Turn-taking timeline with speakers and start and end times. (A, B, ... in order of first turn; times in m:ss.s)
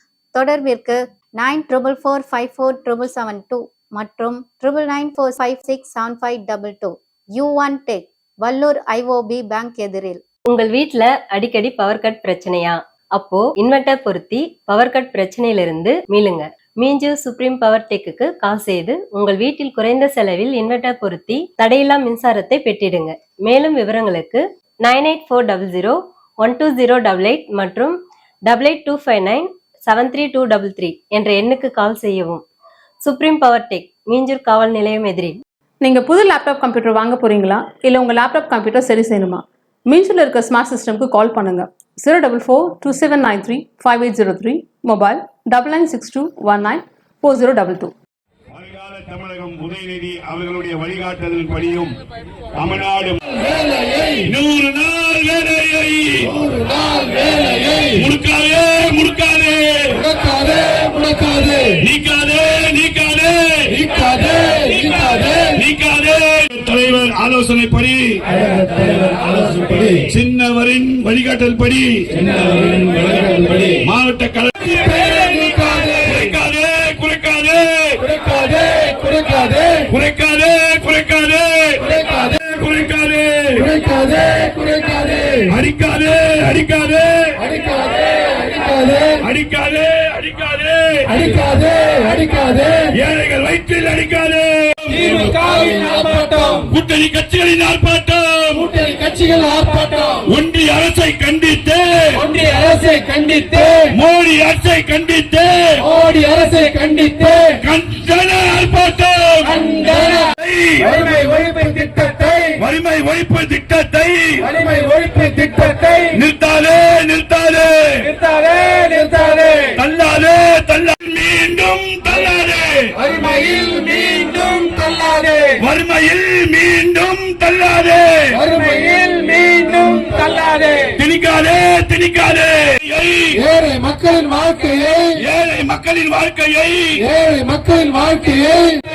0:00.3-0:10.2 A
0:10.5-0:32.4 B
0:33.0-0:35.4 B
0:35.8-0:47.9 C
0:48.5-0:52.0 D
0:52.5-0:53.2 D
0:53.5-0:54.2 E
0:54.2-0:56.4 D
0:56.4-0:57.9 E
0:58.0-1:00.0 D
1:00.1-1:01.7 E
1:01.8-1:03.8 D
1:03.9-1:05.5 E
1:05.5-1:08.3 D
1:09.9-1:12.4 D
1:13.8-1:18.0 D
1:18.1-1:19.8 E
1:19.9-1:23.7 D
1:23.7-1:25.4 E
1:25.5-1:27.4 D
1:27.5-1:29.2 E
1:29.2-1:31.2 D
1:31.2-1:32.8 E
1:32.9-1:35.2 D
1:35.2-1:36.6 E
1:36.7-1:38.7 D
1:38.7-1:40.2 E
1:40.3-1:42.3 D
1:42.3-1:43.8 E
1:43.9-1:45.8 D
1:45.9-1:47.5 E
1:47.6-1:49.7 D
1:49.7-1:50.2 E
1:50.3-1:50.9 D
1:50.9-1:52.5 E
1:52.6-1:54.5 D
1:54.5-1:56.0 E
1:56.1-1:58.1 D
1:58.6-1:59.6 E
1:59.8-2:02.9 D
2:03.1-2:05.5 E
2:05.6-2:08.4 D
2:08.4-2:10.8 E
2:11.0-2:13.4 D
2:13.4-2:15.1 E
2:15.2-2:17.0 D
2:17.1-2:18.8 E